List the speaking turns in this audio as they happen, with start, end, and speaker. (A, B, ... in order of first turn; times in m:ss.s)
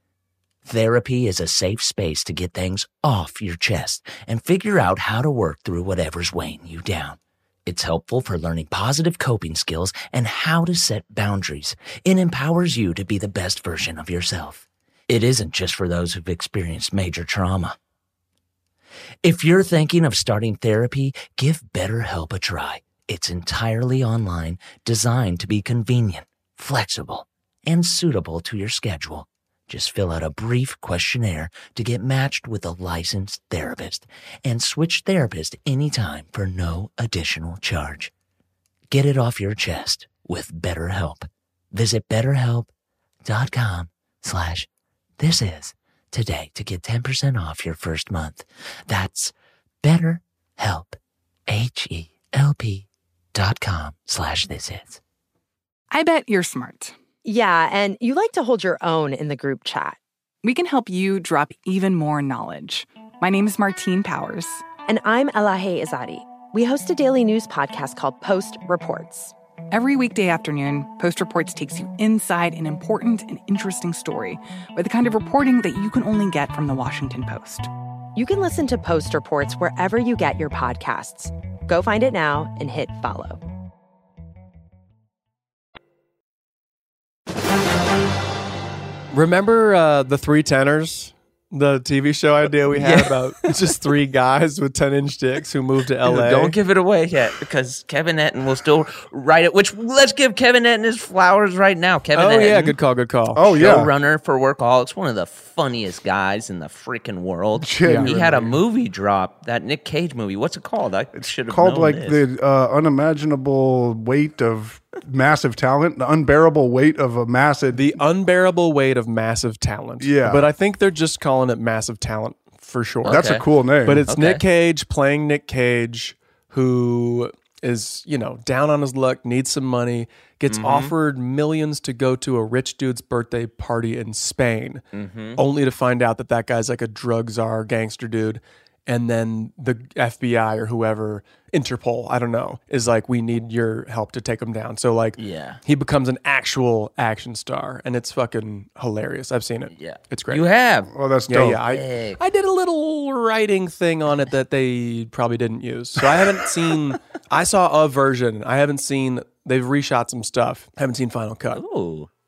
0:00.6-0:17.8 A
0:19.2-0:38.1 A
0:38.9-0:42.7 A
0:43.2-0:44.7 A
0:45.2-0:51.0 A
0:51.5-0:55.0 A
0:55.9-0:57.0 B
0:57.2-1:00.0 C
1:00.4-1:04.7 B
1:04.8-1:09.3 C
1:09.7-1:17.7 B
1:18.2-1:23.4 C
1:29.1-1:36.6 D
1:32.7-1:33.2 A
1:36.0-1:42.8 A
1:42.1-1:43.6 D
1:43.3-1:43.9 E
1:43.5-1:52.2 A
1:47.6-1:48.6 E
1:47.8-1:48.4 D
1:51.2-1:58.0 E
1:57.7-2:03.3 D
2:00.0-2:00.5 E
2:03.0-2:03.4 A
2:03.0-2:04.1 E
2:03.8-2:14.8 D
2:04.1-2:04.4 A
2:10.5-2:10.9 A
2:14.9-2:15.4 A
2:15.4-2:30.5 D
2:25.2-2:25.6 A
2:29.7-2:30.9 A
2:30.9-2:31.6 E
2:31.3-2:41.6 D
2:31.7-2:32.2 A
2:41.5-2:42.1 A